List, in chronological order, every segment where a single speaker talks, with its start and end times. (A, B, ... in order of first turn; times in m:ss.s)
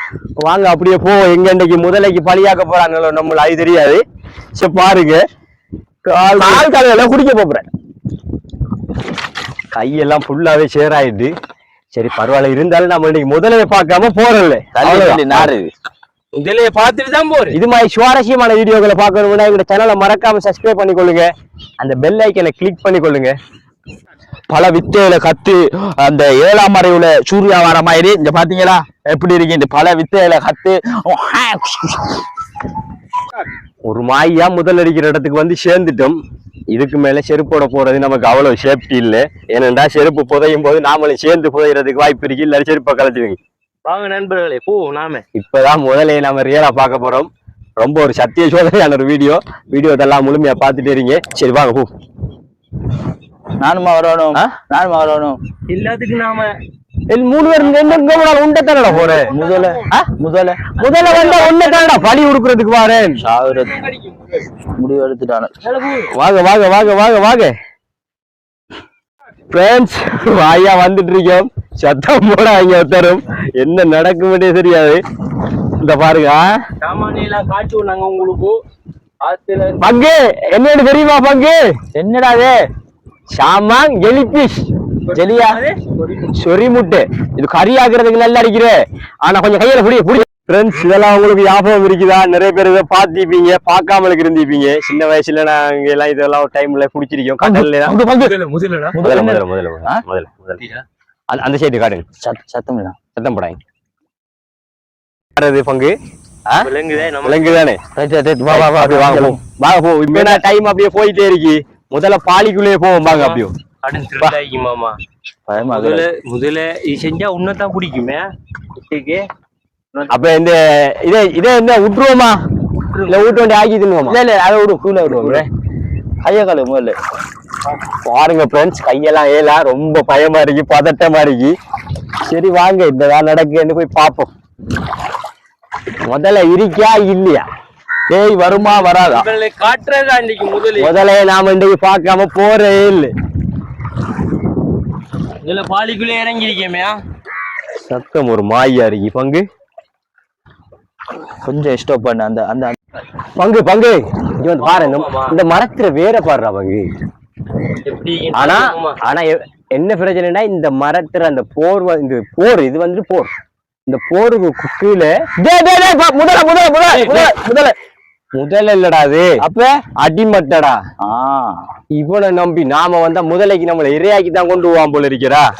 0:00.4-0:04.0 A
0:04.6-0:05.2 A
0:06.0-0:06.7 A
0:06.4-0:07.7 B
0:09.7-0:11.3 A
0:11.9-0:15.5 A
0:14.7-0:15.7 B
0:16.3-0:17.6 C
0:17.5-0:23.3 A
0:24.5-0:32.2 B
0:33.9-0:36.2 A
0:36.7-0:43.4 A
0:43.8-0:45.2 C
0:45.3-0:51.9 A
0:53.6-0:55.4 B
0:55.7-0:56.6 C
0:57.1-0:59.3 A
0:57.5-0:58.3 C
0:58.9-0:59.9 C
0:58.9-1:00.6 B
1:00.8-1:02.2 C
1:00.8-1:03.2 A
1:03.2-1:03.8 B
1:03.4-1:04.6 C
1:04.8-1:05.5 B
1:05.6-1:06.1 C
1:06.1-1:07.5 A
1:09.5-1:15.0 A
1:15.8-1:16.5 A
1:16.8-1:18.6 C
1:19.2-1:19.8 C
1:19.8-1:21.7 A
1:22.0-1:22.6 B
1:23.3-1:24.6 A
1:25.1-1:26.4 C
1:25.1-1:25.6 B
1:26.3-1:37.9 A
1:37.4-1:38.4 B
1:38.2-1:39.0 C
1:38.9-1:40.0 B
1:39.0-1:40.6 A
1:41.3-1:42.0 A
1:42.2-1:43.0 B
1:43.2-1:43.6 A
1:45.4-1:45.9 A
1:46.6-1:47.6 C
1:47.2-1:47.8 A
1:47.9-1:49.4 B
1:48.5-1:53.5 A
1:50.1-1:50.4 C
1:53.0-1:55.0 C
1:55.5-1:56.0 B
1:55.6-1:58.3 C
1:58.8-1:59.3 C
1:59.9-2:00.3 C
2:00.1-2:02.4 A
2:02.8-2:03.5 C
2:03.1-2:04.2 A
2:04.0-2:05.4 B
2:05.0-2:05.5 A
2:06.2-2:07.0 B
2:08.0-2:11.5 A
2:12.2-2:14.3 A
2:16.0-2:17.4 A
2:18.1-2:19.2 B
2:18.5-2:20.9 C
2:20.8-2:23.1 A
2:25.4-2:27.0 C
2:27.8-2:29.4 A
2:31.4-2:32.8 B
2:33.4-2:36.9 A
2:34.6-2:35.4 C
2:37.8-2:39.0 C
2:38.3-2:43.3 A
2:43.9-2:47.5 A
2:46.3-2:47.7 B
2:46.9-2:47.3 C
2:48.4-2:49.3 A
2:49.4-2:49.8 B
2:50.0-2:50.8 A
2:51.0-2:51.6 B
2:51.9-2:55.5 A